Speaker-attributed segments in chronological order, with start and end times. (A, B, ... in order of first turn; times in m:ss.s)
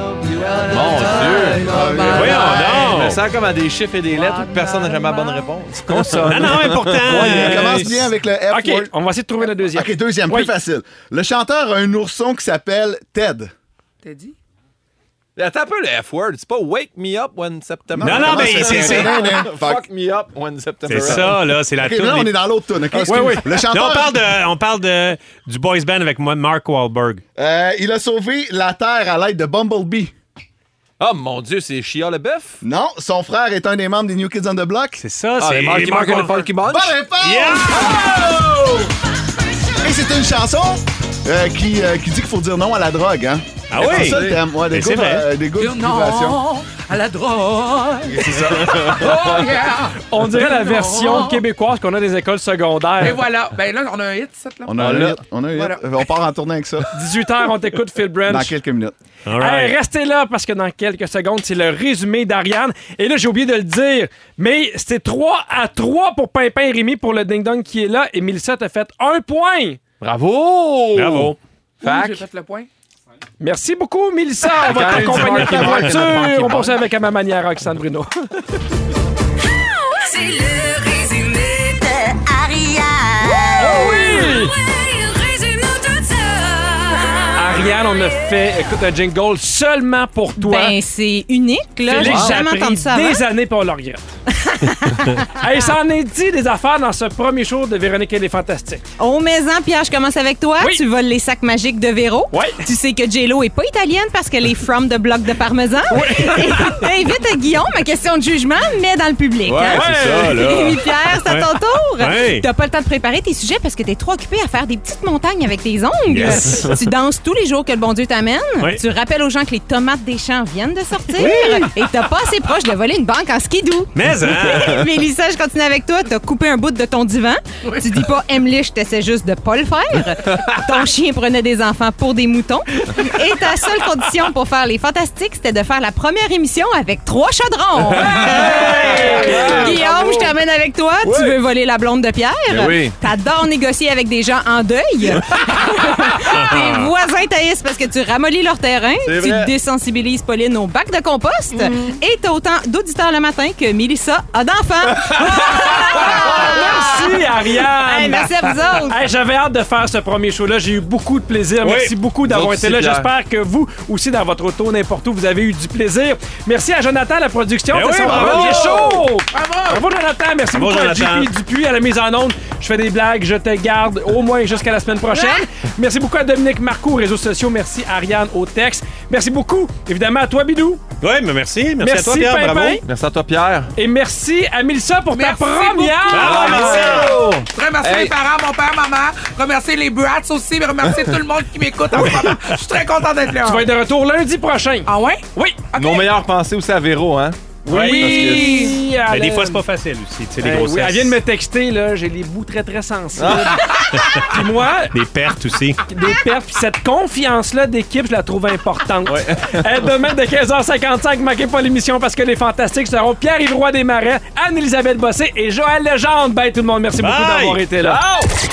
0:00.3-0:00.7 A
0:00.6-0:01.8 B
0:01.6-0:02.5 C
0:01.7-0:02.8 D
0:02.0-0:03.2 E
0:02.6-0:07.8 B
0:05.8-0:07.9 F
0:06.1-0:08.0 E
0:07.0-0:08.9 C
0:08.5-0:10.5 F
0:09.7-0:13.5 C
0:14.0-0:14.3 D
0:15.4-0:21.4 B
0:17.9-0:19.8 C
0:18.0-0:19.2 E
0:20.9-0:22.3 E
0:21.0-0:24.2 C
0:23.0-0:23.5 F
0:23.4-0:27.2 E
0:27.4-0:30.1 C
0:31.0-0:32.6 B
0:32.6-0:35.0 C
0:35.0-0:36.5 E
0:35.4-0:37.0 B
0:36.6-0:38.9 C
0:37.2-0:38.0 E
0:39.8-0:46.4 C
0:43.7-0:45.3 E
0:43.8-0:44.4 B
0:45.6-0:51.4 D
0:48.1-0:49.5 B
0:50.0-0:53.2 F
0:53.0-0:54.8 D
0:54.6-0:56.9 C
0:54.8-0:55.2 B
0:55.5-0:55.8 D
0:56.9-0:58.5 F
0:58.2-0:58.9 C
0:59.2-0:59.7 E
0:59.4-1:09.8 F
1:10.0-1:12.2 B
1:10.9-1:11.4 E
1:11.8-1:12.7 D
1:13.4-1:18.3 F
1:14.6-1:16.8 B
1:14.9-1:16.2 E
1:19.4-1:28.6 A
1:23.6-1:24.5 F
1:27.4-1:30.8 F
1:30.4-1:33.2 G
1:31.8-1:34.2 F
1:32.0-1:32.4 B
1:34.4-1:35.2 G
1:35.3-1:38.8 F
1:39.0-2:39.1 G
1:42.3-1:42.6 F
1:45.9-1:46.8 F
1:49.4-1:50.8 B
1:49.6-1:50.6 F
1:51.2-1:52.5 E
1:56.1-1:56.8 E
1:56.2-1:56.7 B
1:58.6-1:58.9 E
2:01.2-2:01.7 F
2:01.2-2:01.7 E
2:03.9-2:04.8 E
2:17.9-2:20.3 B
2:17.9-2:19.9 F
2:21.0-2:21.4 B
2:22.5-2:23.0 B
2:26.3-2:26.9 E
2:29.0-2:29.5 B
2:35.2-3:00.8 F
2:41.6-2:41.9 E
2:42.2-2:43.1 B
2:47.7-2:49.0 E
2:48.0-2:49.0 B
2:49.3-2:49.8 D
2:50.5-2:51.3 E
3:01.0-3:02.8 E
3:01.8-3:02.8 F
3:02.8-3:03.7 B
3:03.8-3:07.1 F
3:05.1-3:13.7 D
3:06.1-3:07.1 E
3:06.1-3:08.2 B
3:11.9-3:12.4 F
3:13.4-3:15.6 F
3:14.8-3:16.1 D
3:15.7-3:18.8 B
3:17.6-3:19.6 F
3:17.8-3:18.8 D
3:19.1-3:21.2 E
3:20.4-3:24.9 F
3:23.2-3:23.7 B
3:23.9-3:24.2 E
3:24.9-3:25.8 E
3:25.9-3:38.0 F
3:29.0-3:29.9 B
3:37.0-3:37.6 E
3:37.8-3:38.3 B